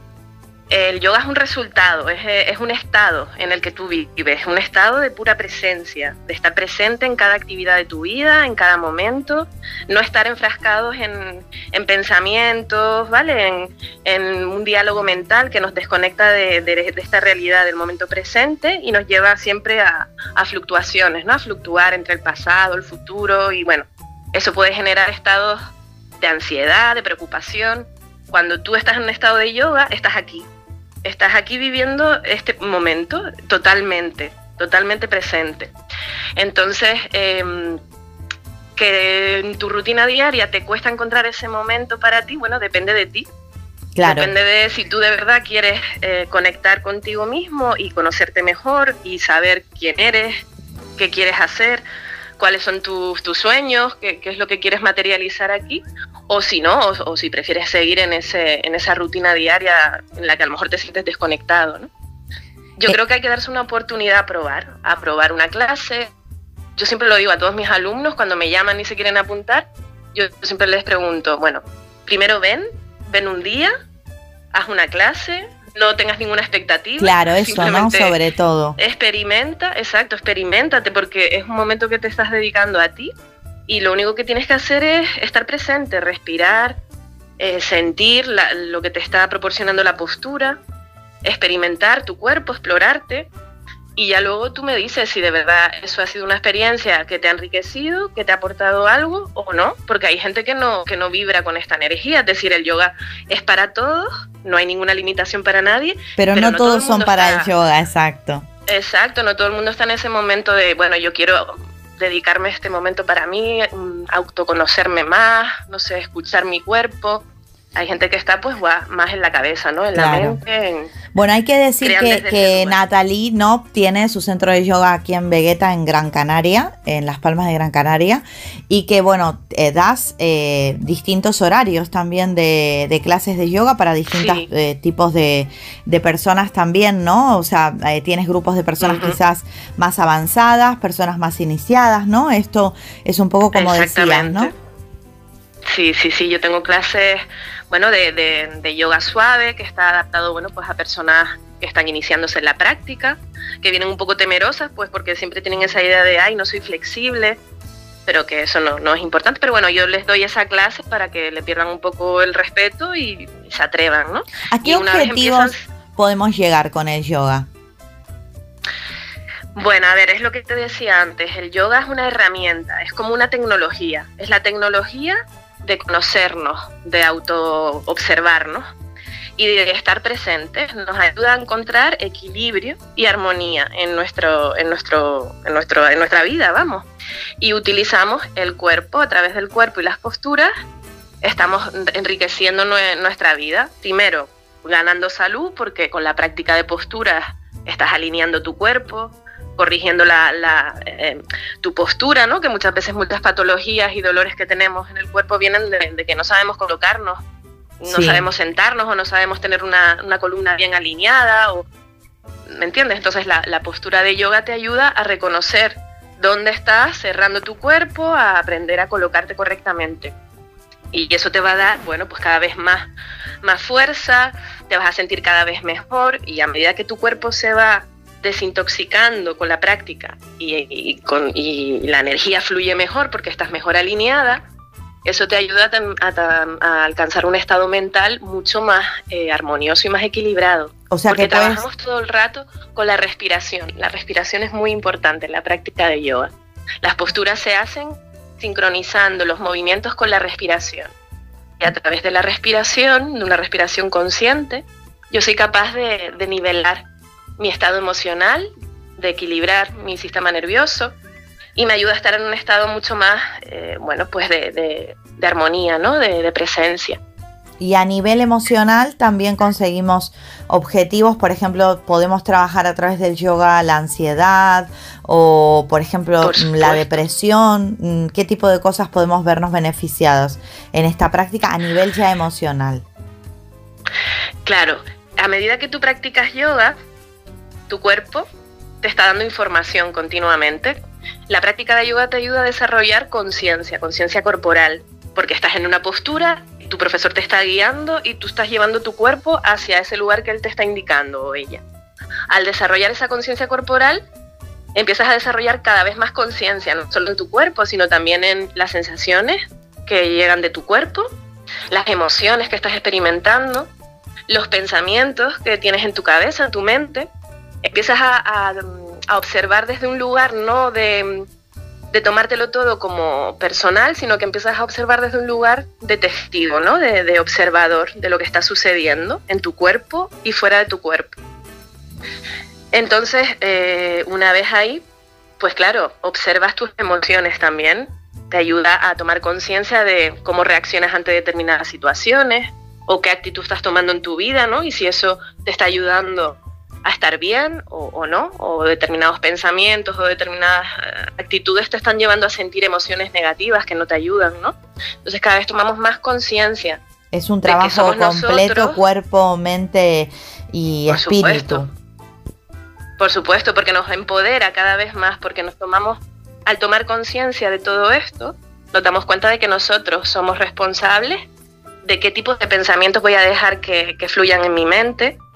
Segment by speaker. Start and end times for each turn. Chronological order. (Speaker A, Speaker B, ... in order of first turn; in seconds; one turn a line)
Speaker A: 0.7-25.6
Speaker A: 26.2-30.5
Speaker A: 31.0-35.7
Speaker A: 36.4-37.8
Speaker A: 38.8-43.3
Speaker B: 44.0-44.3
Speaker A: 44.0-50.4
Speaker A: 51.0-51.8
Speaker A: 52.4-61.9
Speaker A: 62.8-66.1
Speaker A: 66.8-73.7
Speaker A: 74.5-78.2
Speaker B: 77.0-78.8
Speaker A: 78.8-83.1
Speaker A: 83.7-86.8
Speaker A: 87.4-90.6
Speaker A: 91.2-93.3
Speaker A: 94.0-107.5
Speaker B: 106.2-108.5
Speaker A: 108.7-117.2
Speaker A: 117.7-120.9
Speaker B: 119.9-120.4
Speaker B: 121.1-144.5
Speaker A: 121.8-122.8
Speaker A: 134.1-134.5
Speaker A: 138.8-139.2
Speaker A: 143.5-144.5
Speaker A: 145.6-157.4
Speaker A: 158.1-165.6
Speaker B: 164.5-167.5
Speaker A: 169.5-178.6
Speaker A: 179.4-186.9
Speaker A: 187.4-190.5
Speaker A: 191.2-207.2
Speaker A: 207.8-211.7
Speaker B: 207.8-208.2
Speaker A: 212.5-220.1
Speaker A: 220.9-222.9
Speaker A: 223.4-234.4
Speaker A: 235.0-250.9
Speaker B: 240.9-241.6
Speaker A: 251.6-256.8
Speaker A: 257.4-260.9
Speaker A: 261.5-267.0
Speaker B: 267.6-282.8
Speaker A: 276.2-277.0
Speaker A: 284.4-286.7
Speaker A: 287.7-288.2
Speaker A: 288.8-290.8
Speaker A: 291.3-301.6
Speaker A: 302.3-304.1
Speaker A: 304.7-311.1
Speaker A: 311.7-313.7
Speaker A: 314.3-317.1
Speaker A: 317.6-321.3
Speaker A: 321.9-331.1
Speaker A: 332.7-334.8
Speaker A: 335.4-356.8
Speaker B: 357.1-361.7
Speaker A: 357.5-358.8
Speaker A: 360.9-361.7
Speaker A: 363.0-371.2
Speaker A: 371.8-375.2